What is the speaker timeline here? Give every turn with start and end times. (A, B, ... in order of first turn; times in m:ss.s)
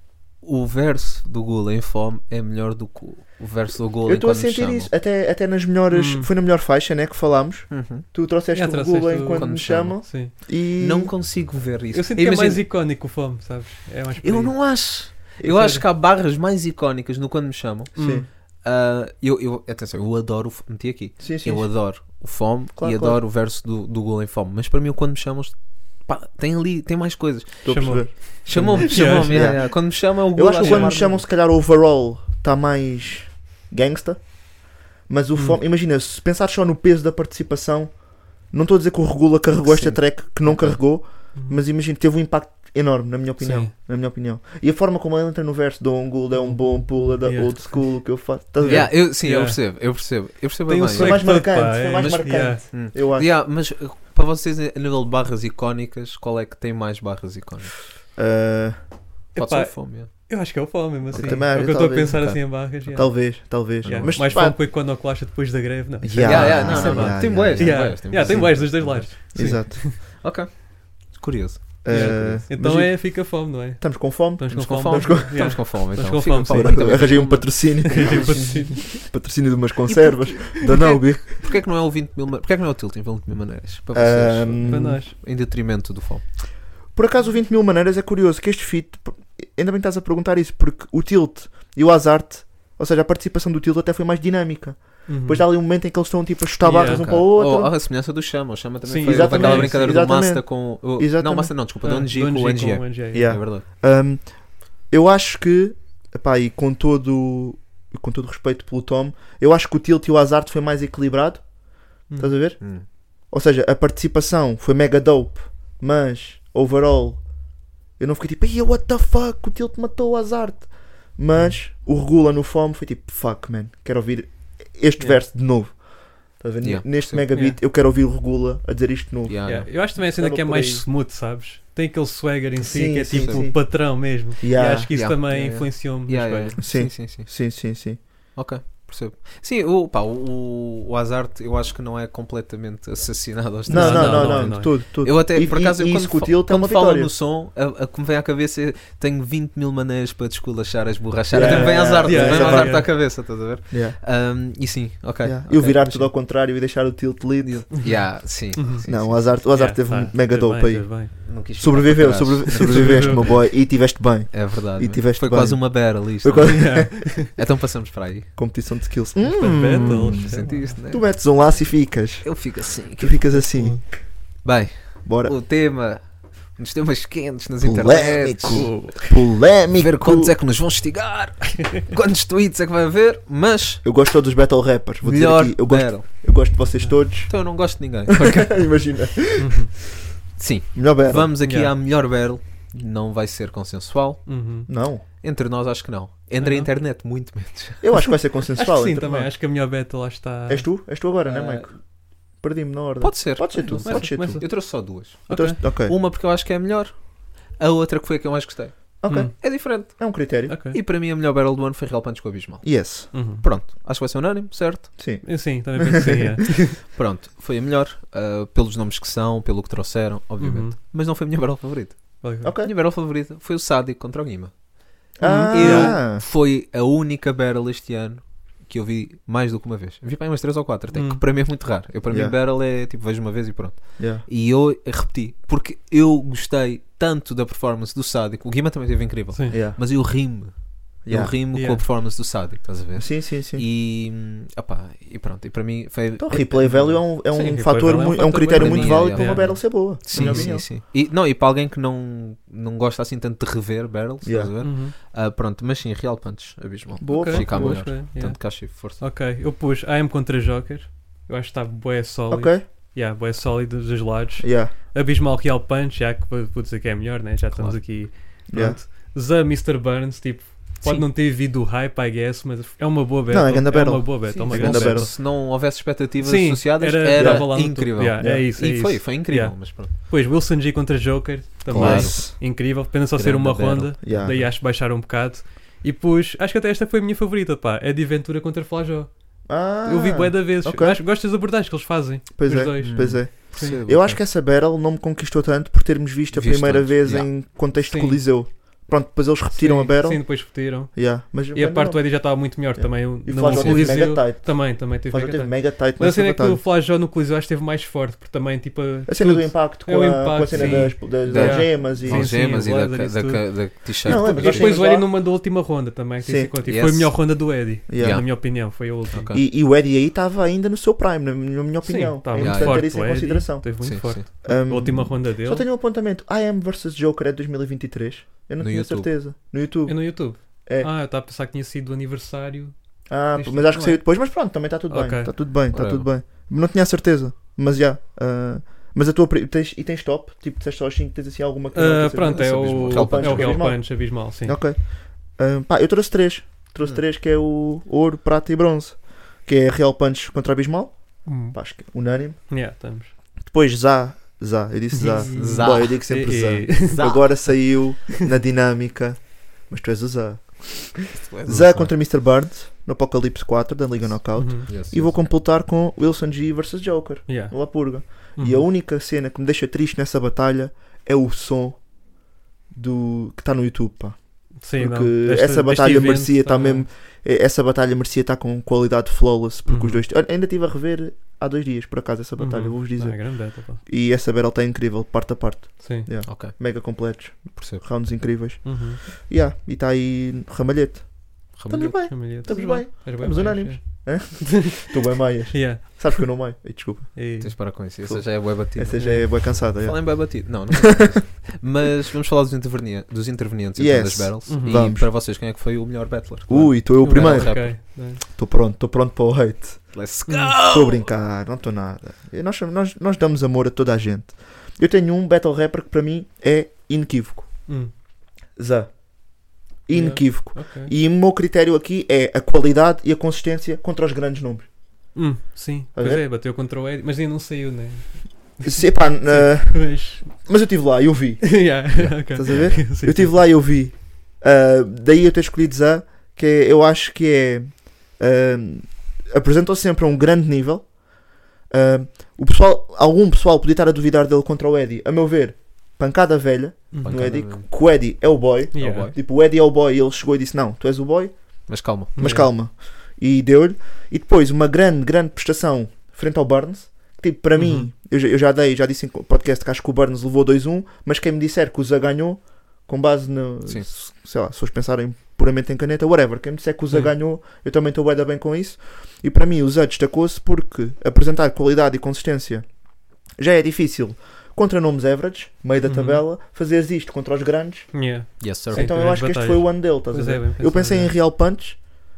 0:00.4-0:04.9 A
0:04.0-0:11.2 B
0:05.9-0:06.3 C
0:07.7-0:08.1 A
0:08.5-0:10.3 C
0:09.3-0:12.7 A
0:11.9-0:15.8 C
0:14.2-0:31.3 A
0:18.0-0:18.3 C
0:18.0-0:18.3 B
0:21.2-0:21.8 B
0:22.8-0:23.2 B
0:27.6-0:48.9 B
0:27.7-0:29.7 C
0:30.6-0:31.0 C
0:39.6-0:41.0 A
0:41.4-0:41.6 C
0:43.4-0:43.7 C
0:46.4-0:49.6 C
0:48.6-0:52.1 A
0:50.7-0:52.6 C
0:50.9-0:53.3 B
0:52.7-0:57.8 A
0:58.2-0:58.8 B
0:59.3-1:10.0 C
0:59.4-1:00.1 A
1:01.1-1:02.4 A
1:01.1-1:04.6 B
1:03.8-1:04.4 A
1:06.0-1:08.8 B
1:06.2-1:12.5 A
1:09.3-1:09.9 B
1:11.8-1:15.6 B
1:11.9-1:19.0 C
1:14.5-1:18.8 A
1:16.5-1:21.3 B
1:19.9-1:26.3 A
1:23.9-1:25.0 B
1:24.6-1:25.1 C
1:26.9-1:37.7 B
1:35.1-1:35.5 C
1:36.6-1:37.1 C
1:36.8-1:43.6 A
1:38.8-1:40.0 C
1:39.0-1:41.5 B
1:41.8-1:43.3 C
1:43.1-1:51.5 B
1:52.1-1:57.3 B
1:52.1-1:52.4 C
1:52.6-1:52.9 A
1:58.0-2:10.9 B
2:05.0-2:05.2 C
2:06.6-2:07.2 A
2:07.3-2:07.6 C
2:09.3-2:09.7 A
2:09.4-2:16.6 C
2:12.6-2:14.9 B
2:13.1-2:13.5 A
2:14.9-2:17.3 A
2:16.6-2:18.0 B
2:18.4-2:36.2 A
2:23.7-2:27.1 B
2:23.7-2:24.8 C
2:31.3-2:34.0 B
2:31.4-2:32.9 C
2:35.2-2:38.0 B
2:37.4-2:39.5 A
2:38.5-2:41.1 C
2:38.8-2:47.3 B
2:41.3-2:48.4 A
2:42.6-2:43.2 C
2:46.4-2:47.3 C
2:48.4-2:54.0 B
2:49.2-2:50.8 C
2:49.6-2:53.5 A
2:53.4-2:53.8 C
2:54.4-3:04.0 A
2:55.0-2:55.4 B
2:57.6-3:00.3 B
2:58.5-2:59.2 C
3:03.8-3:07.4 B
3:05.0-3:06.5 A
3:07.3-3:09.2 A
3:08.1-3:09.8 B
3:09.4-3:09.7 C
3:10.4-3:14.4 A
3:10.8-3:11.3 B
3:11.4-3:11.7 C
3:14.3-3:14.7 C
3:14.7-3:15.0 B
3:15.2-3:18.2 A
3:16.4-3:16.7 C
3:17.8-3:19.3 B
3:18.6-3:20.7 C
3:20.5-3:26.0 B
3:21.3-3:21.7 A
3:23.0-3:35.0 A
3:23.8-3:25.6 C
3:29.0-3:30.6 B
3:29.1-3:29.3 C
3:30.5-3:30.8 C
3:32.6-3:33.1 B
3:33.1-3:33.4 C
3:35.0-3:36.3 B
3:35.2-3:36.8 C
3:36.8-4:07.0 A
3:40.4-3:40.8 C
3:42.2-3:42.5 C
3:42.4-3:42.7 B
3:45.2-3:46.2 B
3:45.2-3:46.0 C
3:50.9-3:51.2 C
3:52.1-3:52.4 B
3:54.0-3:54.2 B
3:59.3-3:59.6 C
3:59.5-3:59.8 B
4:01.0-4:01.3 B
4:01.5-4:01.8 C
4:03.0-4:03.6 B
4:06.2-4:10.7 B
4:07.3-4:10.5 C
4:08.5-4:19.0 A
4:14.2-4:14.5 B
4:14.6-4:15.0 C
4:17.0-4:18.0 B
4:17.1-4:35.3 C
4:22.3-4:22.6 B
4:24.4-4:24.7 B
4:27.5-4:28.1 A
4:28.5-4:28.8 B
4:33.3-4:35.1 B
4:34.4-4:39.9 A
4:36.2-4:53.8 C
4:37.2-4:38.5 B
4:41.7-4:42.4 B
4:41.7-4:44.5 A
4:44.0-4:44.4 B
4:49.5-4:51.0 B
4:52.4-5:06.6 B
4:52.8-4:54.2 A
4:56.3-4:57.4 A
4:57.8-4:58.2 C
4:59.5-5:19.3 C
5:03.5-5:04.0 A
5:09.1-5:12.4 B
5:10.5-5:14.8 A
5:14.0-5:15.3 B
5:16.2-5:16.5 B
5:16.6-5:19.4 A
5:17.9-5:18.3 B
5:19.3-5:30.9 B
5:21.8-5:25.6 C
5:22.4-5:23.0 A
5:23.8-5:24.2 A
5:28.6-5:29.2 A
5:29.9-5:35.3 C
5:33.1-5:52.5 B
5:35.7-5:36.1 A
5:41.7-5:44.6 C
5:42.4-5:43.8 A
5:51.2-5:53.1 C
5:53.5-6:11.9 B
5:54.9-5:57.1 C
5:55.3-5:56.2 A
5:56.8-5:57.7 A
6:01.1-6:02.0 A
6:04.4-6:04.7 C
6:04.4-6:05.2 A
6:07.3-6:08.7 C
6:12.7-6:37.4 B
6:14.6-6:16.9 C
6:19.7-6:20.0 C
6:22.4-6:23.8 C
6:25.8-6:26.1 C
6:26.3-6:27.0 A
6:27.6-6:27.8 A
6:28.6-6:29.0 C
6:31.5-6:32.5 A
6:32.1-6:34.9 C
6:35.5-6:36.4 C
6:37.2-6:37.7 C
6:37.4-6:47.8 A
6:38.0-6:41.2 B
6:39.0-6:39.3 C
6:43.8-6:45.1 B
6:44.5-6:44.8 C
6:46.5-6:50.1 B
6:47.0-6:48.2 C
6:49.9-6:51.1 A
6:50.3-6:50.6 C
6:50.6-6:57.7 B
6:58.6-7:04.7 B
6:59.9-7:00.9 C
7:05.1-7:10.5 C
7:06.0-7:06.2 B
7:08.6-7:21.0 B
7:11.4-7:13.4 C
7:12.0-7:12.8 A
7:21.7-7:52.8 B
7:26.9-7:27.3 C
7:27.0-7:27.7 A
7:28.7-7:29.1 C
7:28.8-7:29.2 A
7:31.7-7:32.3 A
7:32.2-7:32.5 C
7:37.6-7:37.8 C
7:53.4-8:01.9 B
7:55.8-7:56.2 C
7:57.9-8:01.1 C
7:58.4-7:59.1 A